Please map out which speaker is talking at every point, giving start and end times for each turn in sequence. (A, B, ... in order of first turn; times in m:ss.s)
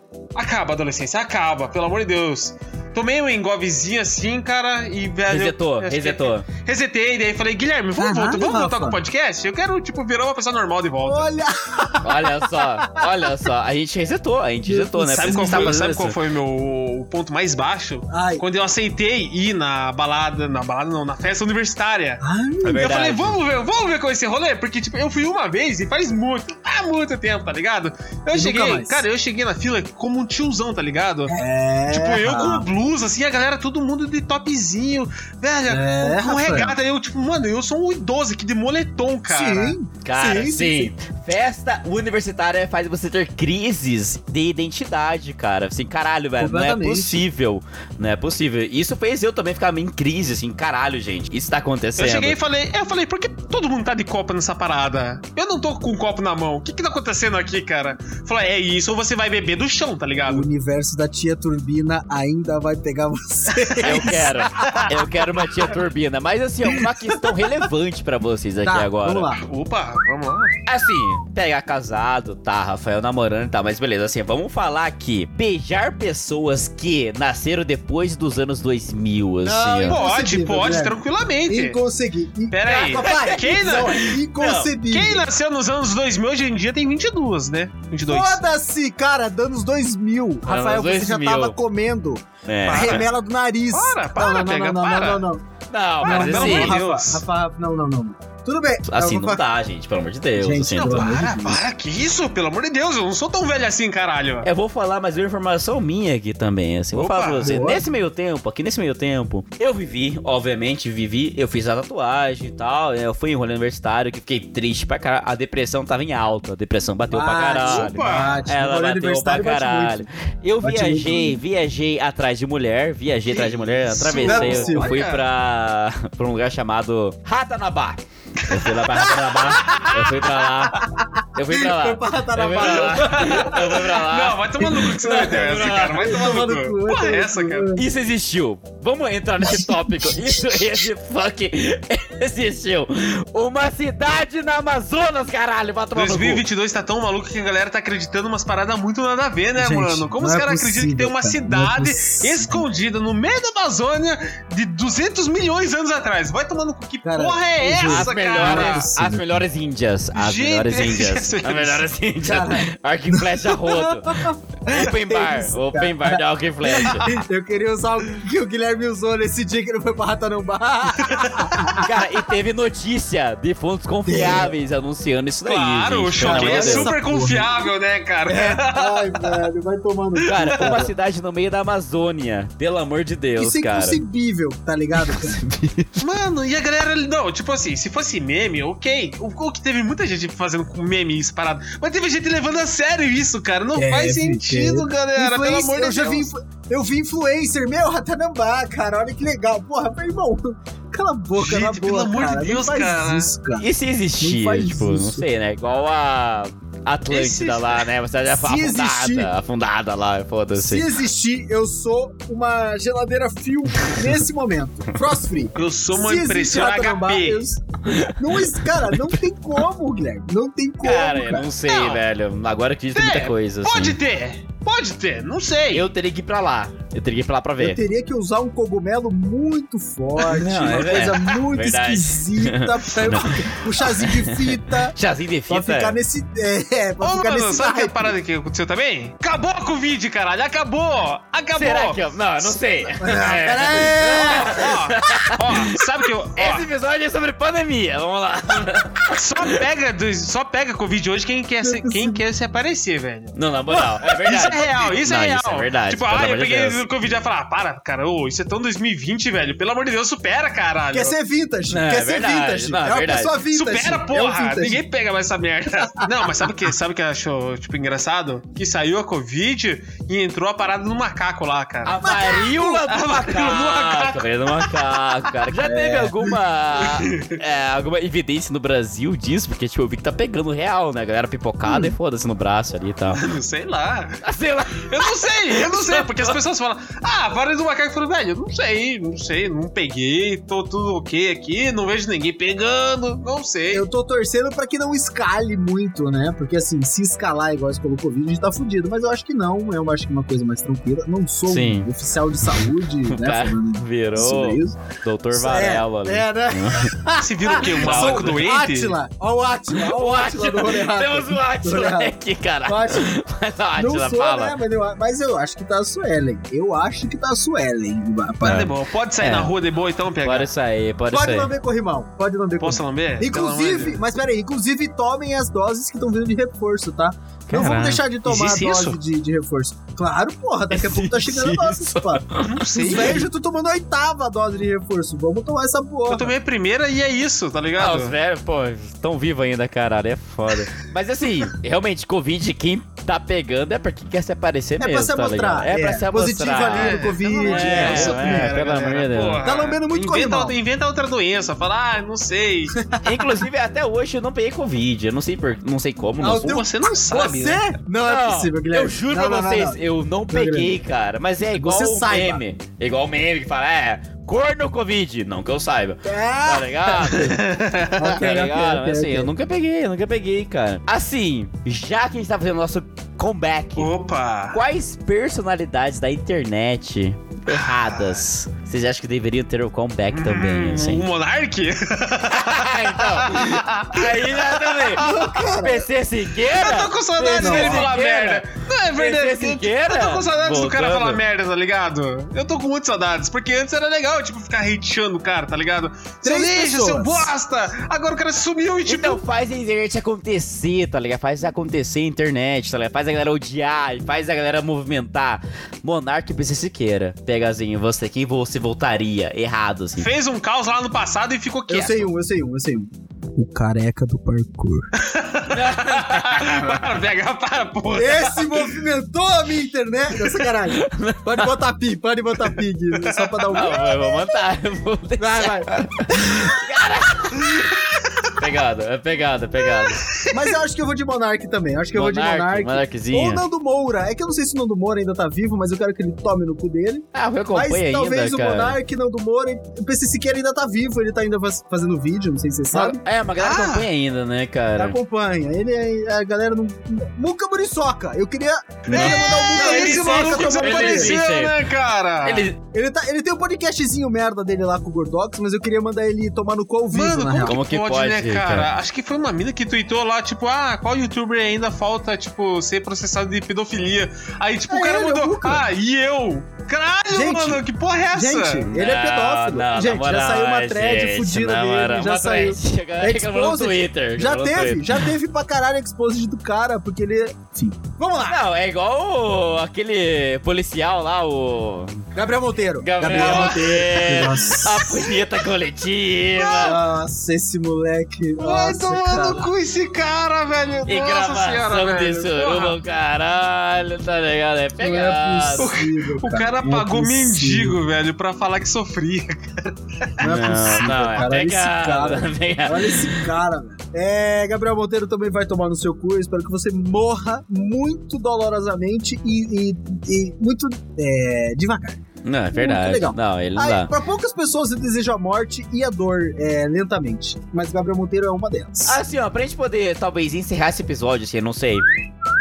0:00.4-0:11.3 A
0:05.3-0:06.5 B
0:08.0-0:09.0 C
0:11.0-0:13.1 C
0:12.0-0:16.2 B
0:14.6-0:15.8 C
0:15.1-0:22.2 A
0:18.1-0:18.4 C
0:22.2-0:22.9 C
0:22.6-0:23.4 B
0:22.8-0:31.4 A
0:28.3-0:29.0 C
0:31.3-0:32.7 C
0:31.9-0:39.8 A
0:35.7-0:36.8 C
0:39.3-0:40.9 C
0:40.0-0:52.4 B
0:46.4-0:47.2 C
0:52.0-1:00.5 A
1:00.3-1:04.9 C
1:03.7-1:04.0 A
1:03.8-1:09.3 B
1:08.6-1:09.4 C
1:09.4-1:10.6 A
1:10.7-1:20.0 B
1:19.4-1:25.3 C
1:19.9-1:21.8 A
1:22.5-1:24.1 A
1:22.7-1:24.7 B
1:24.9-1:28.4 A
1:28.1-1:35.4 C
1:30.4-1:31.6 B
1:32.5-1:33.0 B
1:32.7-1:33.1 A
1:33.7-1:35.3 A
1:35.7-1:36.8 B
1:36.0-1:37.2 A
1:36.0-1:39.4 C
1:38.9-1:41.1 B
1:40.4-1:41.6 C
1:40.7-1:44.5 A
1:44.4-2:16.2 B
1:46.9-1:47.6 A
1:47.4-1:47.8 C
1:57.1-2:00.1 C
1:57.6-1:58.4 A
2:00.6-2:01.4 C
2:03.3-2:05.2 A
2:04.2-2:05.0 C
2:09.0-2:09.9 C
2:10.8-2:13.8 C
2:12.6-2:17.7 A
2:14.6-2:15.4 C
2:16.0-2:17.8 C
2:17.8-2:26.4 B
2:19.4-2:20.6 C
2:26.0-2:38.9 A
2:29.6-2:32.6 C
2:37.0-2:39.5 C
2:37.8-2:47.1 B
2:40.1-2:41.9 A
2:42.2-2:51.9 C
2:51.0-2:51.8 A
2:51.8-2:56.9 B
2:54.1-2:54.5 C
2:55.4-2:59.5 A
2:56.2-2:57.7 C
2:58.3-3:00.9 C
3:00.2-3:04.0 B
3:00.3-3:00.8 A
3:03.4-3:05.4 C
3:05.0-3:06.0 B
3:06.0-3:16.3 A
3:13.8-3:23.7 C
3:21.4-3:23.3 A
3:23.6-3:30.9 B
3:24.2-3:25.3 C
3:27.1-3:27.9 A
3:28.3-3:29.3 C
3:30.6-3:41.5 C
3:35.6-3:37.5 A
3:37.8-3:39.1 B
3:40.8-3:44.0 B
3:41.7-3:42.0 A
3:42.9-3:45.9 A
3:45.7-3:47.8 B
3:47.6-3:55.0 C
3:50.2-3:56.0 B
3:55.5-3:58.2 C
3:57.0-4:02.6 A
4:01.6-4:05.8 B
4:03.0-4:04.7 C
4:04.1-4:06.7 A
4:06.4-4:09.6 B
4:09.1-4:21.2 A
4:11.6-4:12.2 C
4:13.4-4:16.8 B
4:20.9-4:24.8 C
4:21.7-4:23.4 B
4:23.5-4:32.0 A
4:31.8-4:43.2 B
4:32.0-4:32.8 C
4:32.8-4:34.8 A
4:35.5-4:36.4 C
4:36.8-4:37.4 A
4:41.6-4:42.0 C
4:43.1-4:44.2 A
4:44.2-4:46.4 B
4:44.8-4:53.8 A
4:53.7-5:04.8 C
5:01.5-5:01.9 B
5:02.5-5:06.9 B
5:05.3-5:12.1 C
5:07.2-5:09.0 A
5:07.8-5:08.3 B
5:09.8-5:14.6 B
5:12.6-5:13.1 C
5:13.8-5:18.7 C
5:18.4-5:20.5 A
5:19.2-5:19.5 B
5:20.2-5:21.5 B
5:21.1-5:36.3 C
5:22.6-5:24.0 A
5:27.5-5:28.0 B
5:28.2-5:29.0 A
5:30.7-5:33.2 B
5:32.4-5:33.3 A
5:36.1-5:38.1 A
5:37.8-5:49.4 B
5:44.8-5:48.6 C
5:46.6-5:52.8 A
5:49.4-5:50.6 C
5:52.8-5:53.4 C
5:53.0-5:56.6 B
5:56.2-5:59.8 C
5:56.3-5:57.7 A
5:58.1-6:07.4 B
6:00.3-6:00.7 C
6:01.6-6:02.4 C
6:06.0-6:07.4 C
6:07.2-6:08.1 A
6:08.0-6:09.3 C
6:08.0-6:13.9 B
6:13.8-6:14.6 A
6:14.5-6:21.1 B
6:17.5-6:18.2 A
6:20.1-6:24.4 A
6:22.3-6:31.2 B
6:24.9-6:25.9 C
6:26.5-6:39.2 A
6:27.4-6:27.9 C
6:36.2-6:37.3 C
6:38.9-6:50.1 B
6:50.0-6:52.1 A
6:51.7-6:54.9 C
6:55.0-6:58.7 A
6:55.5-6:56.8 B
6:57.9-7:03.8 C
7:00.7-7:01.5 B
7:03.0-7:03.7 A
7:03.5-7:07.7 B
7:05.2-7:06.4 C
7:08.3-7:10.2 B
7:09.8-7:10.4 A
7:10.3-7:23.0 C
7:11.9-7:13.4 B
7:17.1-7:18.8 B
7:22.7-7:25.0 B
7:23.4-7:23.9 A
7:24.8-7:31.2 C
7:28.9-7:31.6 B
7:28.9-7:32.5 A
7:32.2-7:32.6 B
7:32.7-7:37.6 C
7:36.9-7:48.7 A
7:37.4-7:38.7 B
7:44.7-7:45.7 C
7:47.1-7:58.4 C
7:48.7-7:55.1 B
7:58.3-8:02.0 B
8:02.1-8:04.8 C
8:02.8-8:06.8 B
8:03.1-8:04.9 A
8:06.4-8:06.8 A
8:06.6-8:09.4 C
8:08.4-8:12.8 A
8:10.9-8:15.7 B
8:14.8-8:17.8 C
8:15.6-8:20.1 A
8:20.2-8:39.0 C
8:20.2-8:23.3 B
8:32.2-8:33.9 B
8:38.8-8:41.9 B